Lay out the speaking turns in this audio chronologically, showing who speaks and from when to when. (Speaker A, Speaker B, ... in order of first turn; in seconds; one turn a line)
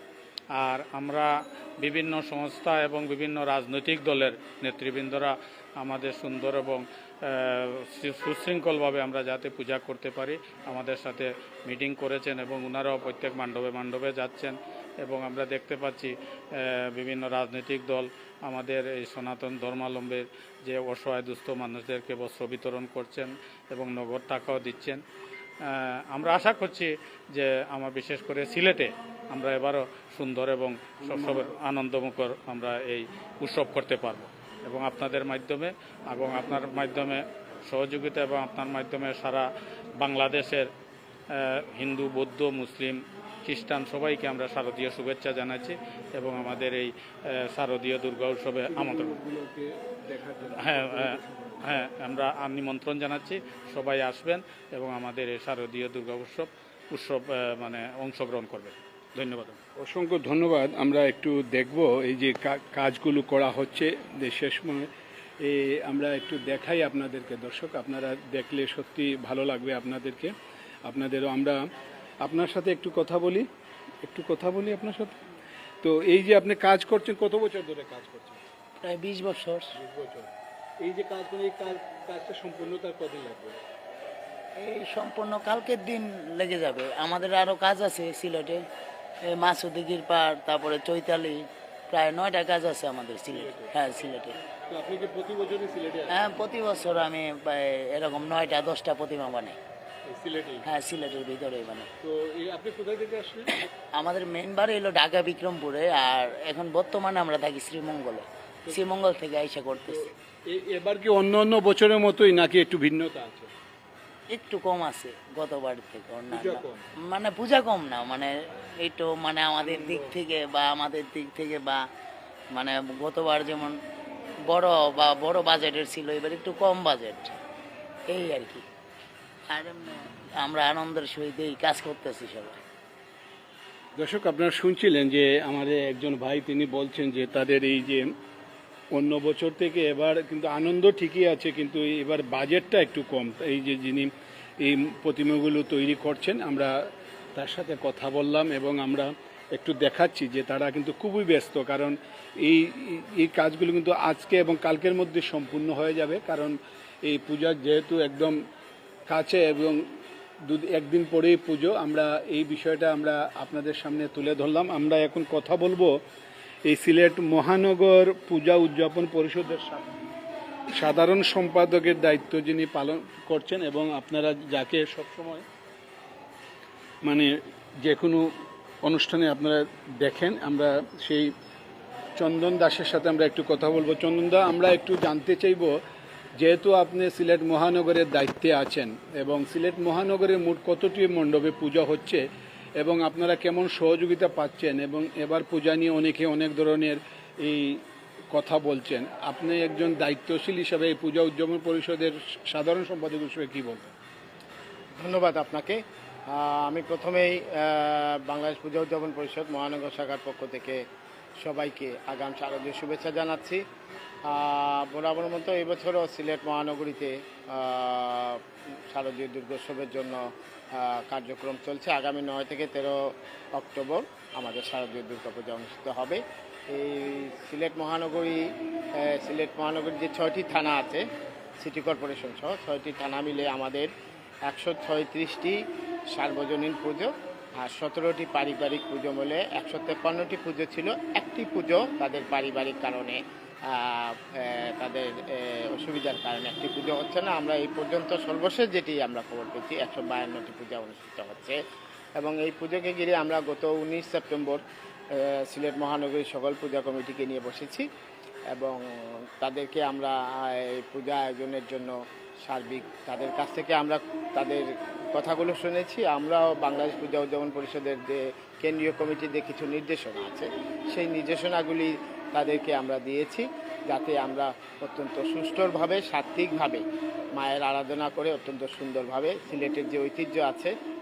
Speaker A: 0.6-25.0
Speaker A: 25.6-39.5
Speaker A: 40.0-40.7
Speaker A: 41.3-49.1
Speaker B: 48.7-51.7
Speaker A: 50.6-51.1
Speaker A: 51.7-59.6
Speaker B: 59.8-64.9
Speaker B: 65.4-70.3
Speaker B: 70.9-71.6
Speaker B: 72.2-73.5
Speaker B: 74.0-75.2
Speaker B: 75.8-78.4
Speaker C: 78.8-79.7
Speaker B: 79.7-83.6
Speaker C: 84.6-88.6
Speaker C: 89.2-94.4
Speaker B: 93.3-93.7
Speaker B: 94.5-96.2
Speaker C: 96.1-99.6
Speaker B: 100.0-100.7
Speaker C: 100.6-101.9
Speaker B: 102.0-103.5
Speaker C: 103.9-110.1
Speaker B: 109.8-113.5
Speaker C: 114.3-121.8
Speaker B: 116.3-116.9
Speaker B: 119.6-120.1
Speaker C: 122.5-123.8
Speaker C: 124.5-127.3
Speaker C: 128.1-128.6
Speaker C: 129.5-132.6
Speaker B: 133.9-138.1
Speaker B: 138.9-144.1
Speaker B: 144.6-158.3
Speaker B: 159.1-159.8
Speaker B: 160.4-165.9
Speaker B: 166.7-170.0
Speaker B: 170.7-175.4
Speaker B: 177.0-178.3
Speaker B: 178.8-181.3
Speaker B: 182.2-185.7
Speaker B: 186.4-192.2
Speaker B: 192.8-203.9
Speaker D: 205.0-205.8
Speaker D: 206.3-210.8
Speaker D: 211.4-213.6
Speaker D: 214.3-218.4
Speaker D: 218.9-220.2
Speaker D: 220.7-223.0
Speaker D: 223.5-228.4
Speaker D: 229.0-231.0
Speaker D: 231.6-233.9
Speaker D: 234.5-235.6
Speaker D: 236.1-237.1
Speaker D: 237.6-243.2
Speaker D: 243.7-251.6
Speaker D: 252.2-254.6
Speaker D: 255.1-257.8
Speaker D: 258.5-258.8
Speaker D: 259.4-261.9
Speaker D: 262.4-276.8
Speaker D: 277.4-280.7